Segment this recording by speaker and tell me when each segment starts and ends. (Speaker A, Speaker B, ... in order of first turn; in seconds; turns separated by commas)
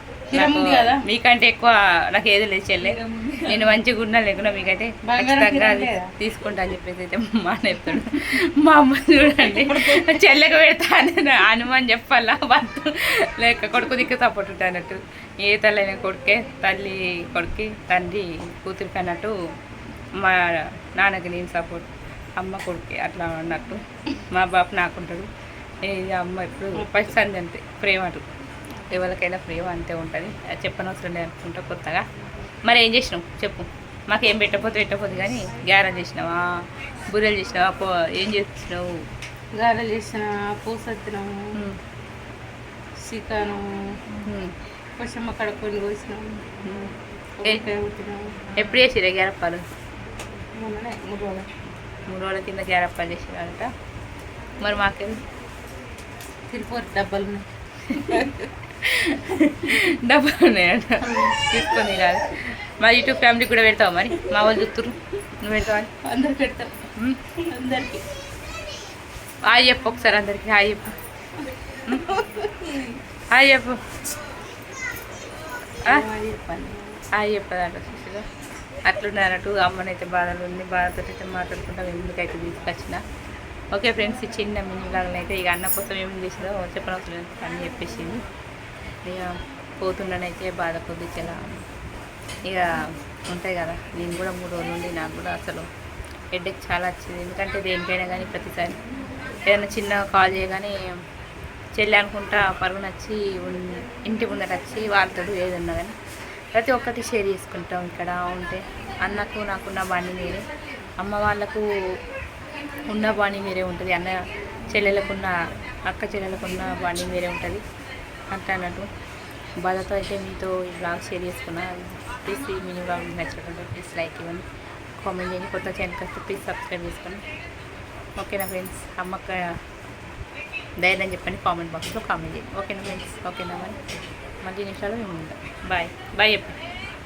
Speaker A: 0.3-1.1, Speaker B: 0.3-19.4, Speaker A: 3.0-3.7, Speaker A: 5.0-6.1, Speaker A: 9.4-10.0, Speaker B: 20.2-25.3, Speaker B: 25.8-28.3, Speaker A: 26.8-27.2, Speaker B: 28.9-32.0, Speaker B: 32.6-36.5, Speaker B: 37.1-38.9, Speaker A: 39.6-41.5, Speaker A: 43.0-44.0, Speaker B: 44.2-44.5, Speaker A: 45.0-46.6, Speaker B: 46.6-46.9, Speaker A: 47.4-48.6, Speaker B: 48.6-49.6, Speaker A: 50.6-51.5, Speaker B: 52.1-53.7, Speaker B: 54.6-55.2, Speaker A: 56.5-58.5, Speaker B: 57.9-65.9, Speaker A: 66.0-66.8, Speaker A: 67.4-68.0, Speaker B: 69.5-71.0, Speaker A: 71.8-73.0, Speaker B: 73.3-73.8, Speaker A: 75.8-77.0, Speaker B: 77.1-78.3, Speaker B: 78.9-83.0, Speaker B: 83.7-88.2, Speaker B: 89.0-91.6, Speaker B: 93.3-95.7, Speaker B: 96.3-98.8, Speaker B: 99.5-100.8, Speaker B: 101.8-106.0, Speaker B: 106.5-110.5, Speaker B: 111.0-111.7, Speaker B: 112.9-115.4, Speaker B: 115.9-117.6, Speaker B: 118.3-118.9, Speaker B: 119.6-124.5, Speaker B: 125.0-127.2, Speaker B: 128.2-129.5, Speaker B: 130.8-133.8, Speaker B: 134.4-136.6